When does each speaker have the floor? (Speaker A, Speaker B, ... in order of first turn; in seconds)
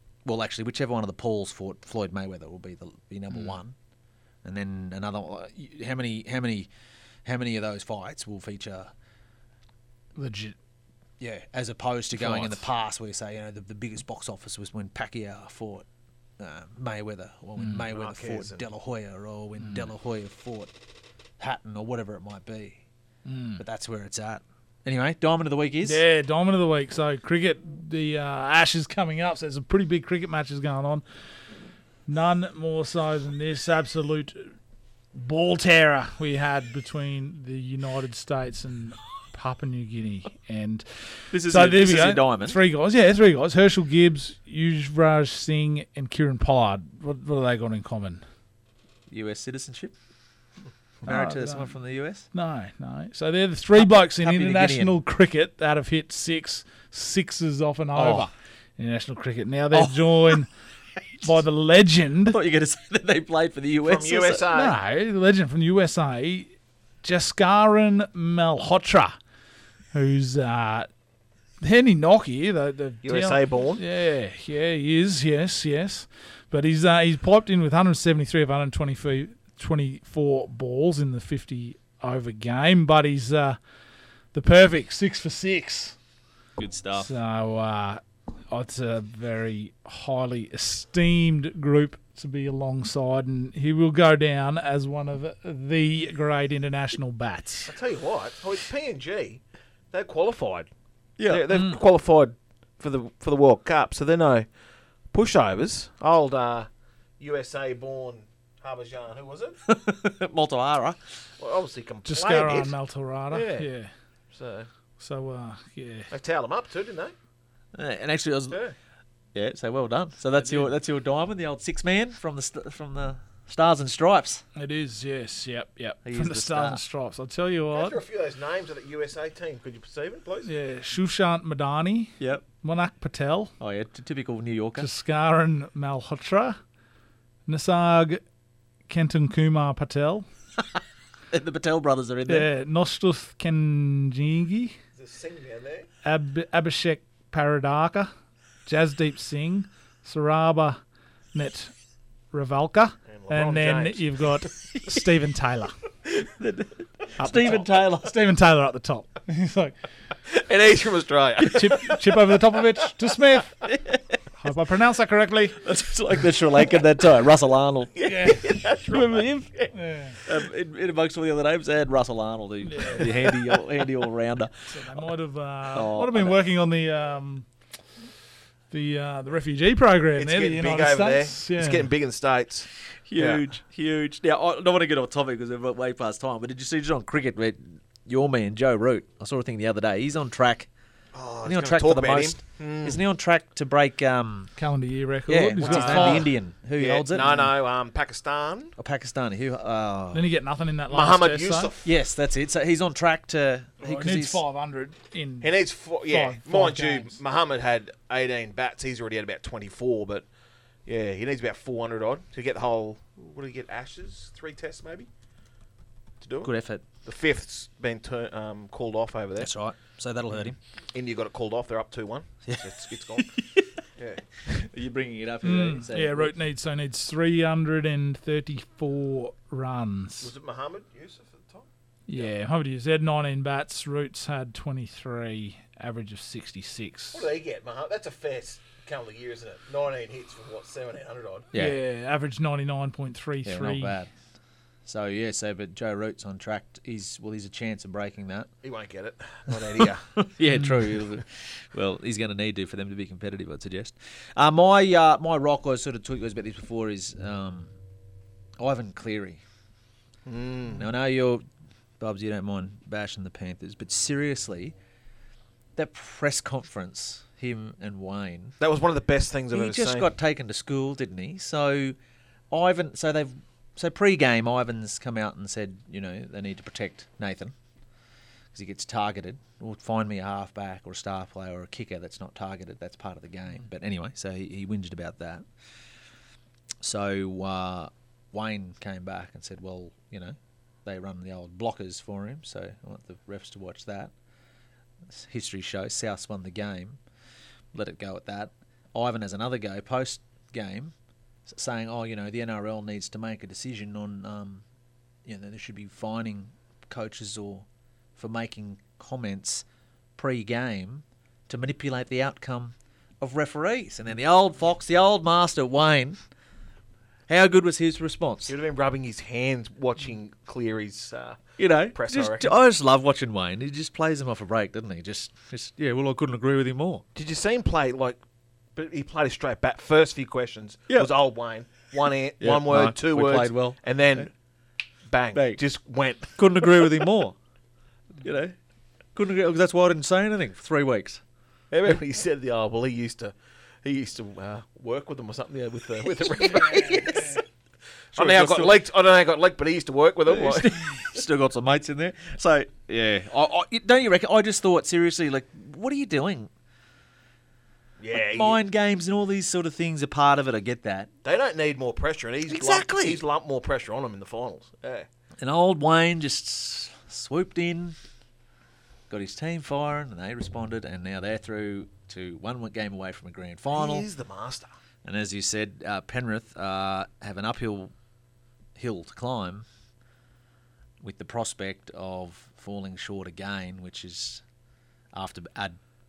Speaker A: 0.2-3.8, 4.4-6.7, 7.2-8.9, 11.2-15.9, 16.4-20.7, 21.4-22.8, 23.6-26.0, 41.3-42.6, 49.1-50.0, 51.0-52.3, 53.8-55.0, 57.9-58.3, 59.7-60.5, 62.3-64.4, 86.6-87.1, 101.2-101.5, 109.7-111.3, 117.7-118.6, 119.3-124.5, 126.0-126.8, 132.2-132.4, 133.6-134.9, 141.3-142.5, 156.1-158.1, 163.7-164.2, 165.6-175.0, 175.7-176.4, 182.9-190.7, 191.4-194.6, 195.3-197.4, 198.8-200.2, 201.8-204.4, 216.4-216.8, 219.4-220.6, 222.5-223.7, 224.4-226.3, 241.5-241.8, 243.4-248.6, 250.2-257.7, 258.6-259.4, 260.7-261.4, 262.0-264.8, 265.8-268.6, 269.5-272.0, 272.5-277.6, 278.5-285.4, 286.8-294.1, 295.1-297.0, 297.7-304.6, 305.2-309.6, 310.2-316.2, 317.3-318.5, 321.6-327.1, 330.9-331.1, 331.7-334.3, 335.3-337.4, 338.2-338.6, 339.1-341.2, 346.5-347.4, 348.1-348.8, 350.3-356.5, 358.1-361.1, 362.5-363.2, 365.4-368.0, 369.1-374.1, 375.0-377.9, 378.8-379.7, 381.0-384.4, 385.1-385.8
Speaker B: 3.3-3.5, 10.2-10.6, 12.1-12.6, 17.6-17.8, 19.6-19.9, 23.2-23.6, 25.8-34.6, 35.1-48.2, 51.0-60.6, 61.2-62.4, 64.5-69.2, 69.9-70.9, 71.6-83.7, 84.3-86.0, 87.0-97.7, 101.5-101.8, 112.1-114.1, 115.0-116.1, 124.6-128.0, 130.4-133.5, 134.8-136.6, 137.5-138.2, 138.9-140.3, 142.3-144.8, 146.0-148.1, 148.7-150.8, 151.3-155.8, 157.2-159.9, 161.5-163.6, 164.4-165.6, 168.1-168.5, 169.7-170.2, 172.7-173.1, 174.7-177.9, 178.7-181.9, 194.6-196.4, 200.1-201.7, 203.8-207.2, 225.4-230.3, 232.1-237.3, 241.5-244.0, 250.6-250.8
Speaker C: 17.9-18.6, 63.8-64.8, 73.0-73.8, 97.7-109.6, 111.4-114.7, 116.1-117.1, 118.5-118.8, 127.7-130.5, 145.0-145.9, 153.1-154.2, 160.3-162.0, 168.0-169.7, 180.2-183.5, 191.1-193.0, 195.7-198.8, 200.9-201.9, 205.4-210.3, 210.8-215.1, 216.2-224.6, 230.2-232.3, 237.1-241.5, 248.6-250.3, 260.3-260.9, 268.6-270.1, 318.5-322.5, 327.1-334.5, 335.0-336.7, 341.7-347.4, 348.1-351.0, 358.0-358.6, 361.2-365.1, 373.7-374.7